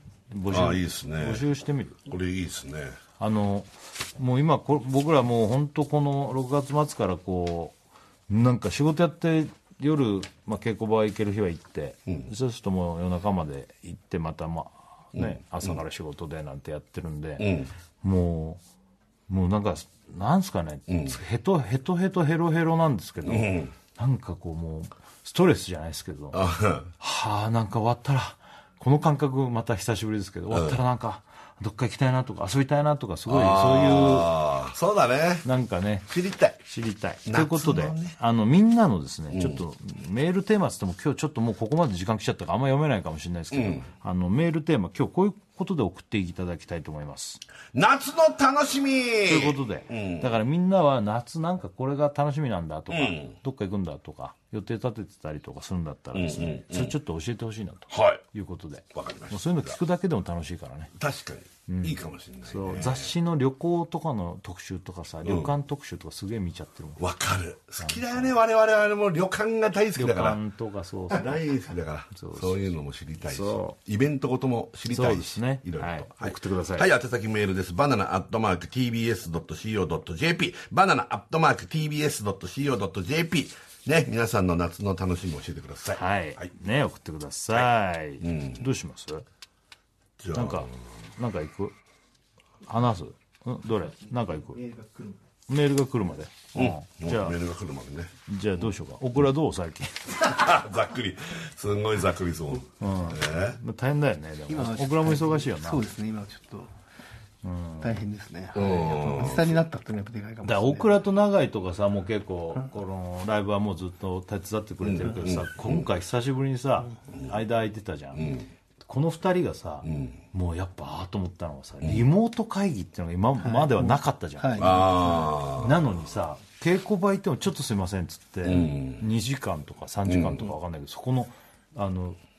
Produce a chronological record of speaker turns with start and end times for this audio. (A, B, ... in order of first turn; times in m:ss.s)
0:00.3-0:02.0 A
0:00.5-0:01.4 B
0:02.1-0:03.0 B
0:03.2-0:07.7 A
0:08.3-0:17.5 A
0:15.1-0:15.8 B
0:17.4-0:17.7 B
0:18.0-0:18.6 A
0:19.3-0:34.3 A
0:20.9-0:21.2 B
0:23.2-0:23.7 B
0:26.3-0:26.9 B
0:30.5-0:30.8 B
0:33.3-0:35.4 B
0:35.4-0:36.1 A
0:36.1-0:36.6 B
0:36.7-0:47.4 A
0:37.2-0:38.1 B
0:39.3-0:39.6 B
0:43.5-0:43.8 B
0:47.7-0:50.3 B
0:49.2-1:00.9 A
0:52.9-0:53.3 B
0:56.1-0:56.9 B
0:57.9-0:58.2 B
0:58.9-0:59.8 B
1:00.9-1:03.1 B
1:01.7-1:07.0 A
1:05.2-1:05.5 B
1:07.0-1:10.4 B
1:07.8-1:08.3 A
1:10.0-1:11.3 A
1:11.1-1:26.5 B
1:12.1-1:12.6 A
1:13.2-1:13.8 A
1:14.9-1:16.9 A
1:25.9-1:29.2 A
1:28.2-1:28.6 B
1:30.2-1:30.7 B
1:30.3-1:31.7 A
1:32.6-1:34.6 A
1:34.0-1:35.2 C
1:35.5-1:37.4 A
1:36.5-1:38.1 B
1:38.3-1:40.1 A
1:40.2-1:43.6 B
1:42.8-1:45.8 A
1:44.5-1:46.7 C
1:47.4-1:48.0 A
1:47.8-1:51.0 C
1:48.5-1:49.6 B
1:50.4-2:04.9 A
1:54.8-1:55.8 B
1:58.2-1:58.4 B
1:59.8-2:00.2 B
2:03.4-2:05.2 C
2:04.6-2:05.8 B
2:05.5-2:12.2 A
2:08.4-2:09.0 B
2:10.1-2:10.5 B